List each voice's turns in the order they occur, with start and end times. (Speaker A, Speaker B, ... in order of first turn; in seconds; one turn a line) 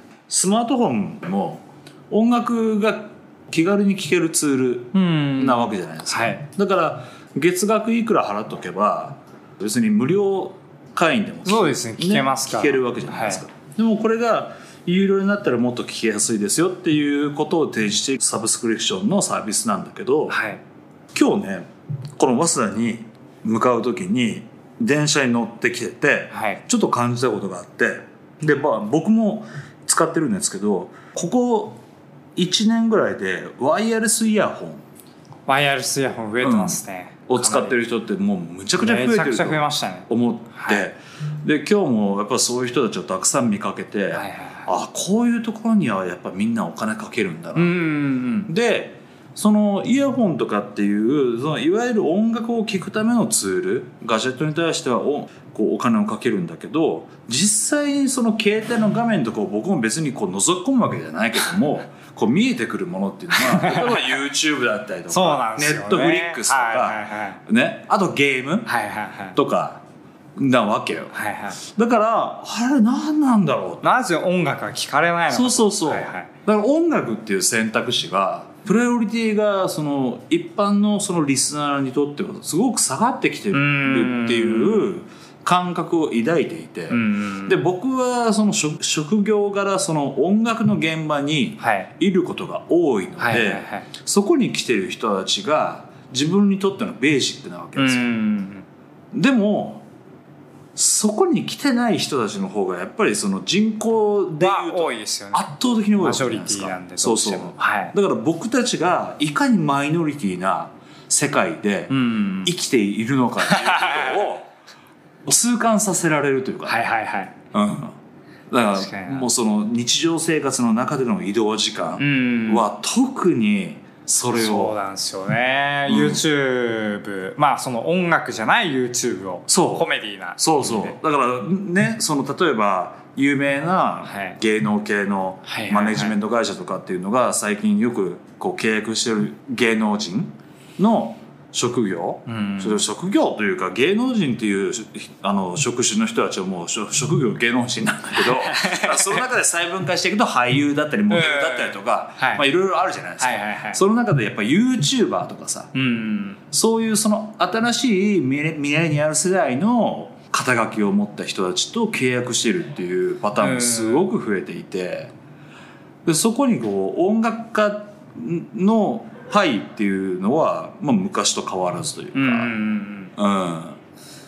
Speaker A: 0.3-20.4
Speaker B: 4.9-6.4
Speaker B: 11.4-13.4
Speaker B: 20.3-20.6
Speaker A: 21.1-31.8
Speaker B: 26.3-26.6
Speaker A: 32.4-34.8
Speaker B: 35.5-37.8
Speaker A: 36.4-47.8
Speaker B: 38.8-40.9
Speaker B: 44.1-44.7
Speaker B: 47.5-48.5
Speaker A: 48.5-68.7
Speaker B: 63.3-64.1
Speaker B: 65.1-67.4
Speaker B: 68.7-69.4
Speaker A: 69.3-69.8
Speaker A: 70.4-73.9
Speaker B: 71.1-71.6
Speaker B: 73.8-76.3
Speaker A: 75.3-98.0
Speaker B: 83.5-84.9
Speaker B: 86.9-87.6
Speaker B: 91.6-91.9
Speaker B: 93.2-93.9
Speaker B: 97.8-98.7
Speaker A: 99.1-99.9
Speaker A: 100.8-111.9
Speaker B: 104.4-105.5
Speaker B: 106.0-107.9
Speaker B: 111.9-112.5
Speaker A: 112.4-114.5
Speaker B: 113.5-114.3
Speaker A: 115.2-116.8
Speaker B: 116.7-117.3
Speaker A: 117.5-117.9
Speaker A: 118.5-124.8
Speaker B: 118.8-119.3
Speaker B: 122.0-122.7
Speaker B: 124.3-131.0
Speaker A: 125.9-126.2
Speaker A: 129.5-129.9
Speaker A: 130.4-155.7
Speaker B: 134.1-134.4
Speaker B: 135.4-136.1
Speaker B: 142.3-142.8
Speaker B: 148.2-149.2
Speaker B: 151.1-152.4
Speaker B: 153.2-153.8
Speaker B: 155.7-156.4
Speaker A: 156.5-165.1
Speaker B: 163.4-164.1
Speaker A: 166.1-172.5
Speaker B: 172.1-173.1
Speaker A: 173.2-173.8